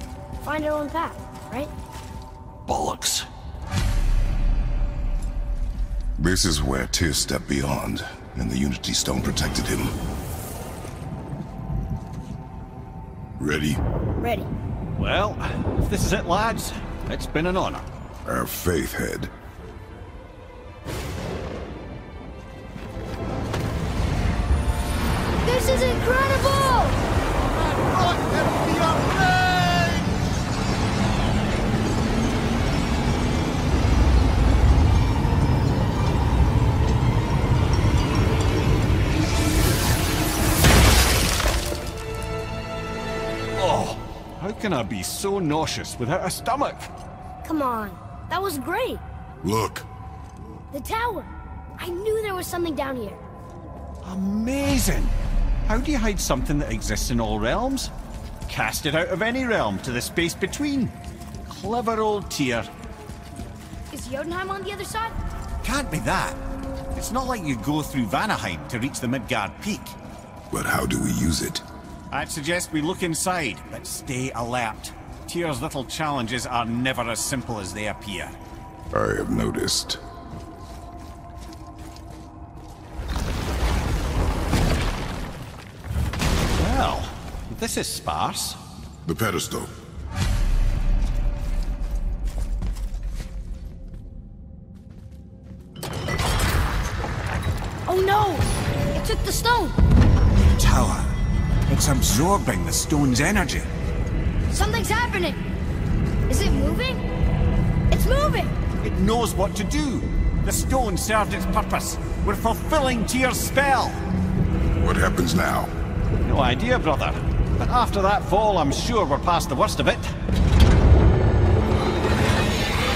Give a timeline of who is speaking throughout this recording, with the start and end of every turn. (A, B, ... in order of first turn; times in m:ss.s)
0:00.4-0:01.7 A
0:02.7-0:03.2 B
0:06.2-0:09.9 C
0:13.4-0:13.8 C
0:14.2-0:14.5 A
0:15.0-0:17.9 B
0:18.2-0:19.3 C
0:25.4-0:27.0 A
0:27.6-0:30.0 B
0:43.6-0:46.9 B
0:47.4-0:49.0 A
0:49.4-0:49.9 C
0:50.7-0:53.2 A
0:54.0-0:55.1 B
0:55.6-0:57.9 B
0:58.5-1:00.9 B
1:01.5-1:02.7 B
1:03.9-1:05.2 A
1:05.6-1:06.4 B
1:06.9-1:10.0 B
1:10.5-1:11.6 C
1:12.1-1:18.4 B
1:18.9-1:20.0 C
1:26.6-1:28.6 B
1:29.0-1:29.7 C
1:37.9-1:39.8 A
1:40.6-1:41.1 B
1:41.7-1:43.7 B
1:44.5-1:45.4 A
1:46.3-1:47.0 A
1:47.9-1:48.5 A
1:48.8-1:54.0 B
1:54.8-1:55.7 C
1:56.2-2:00.1 B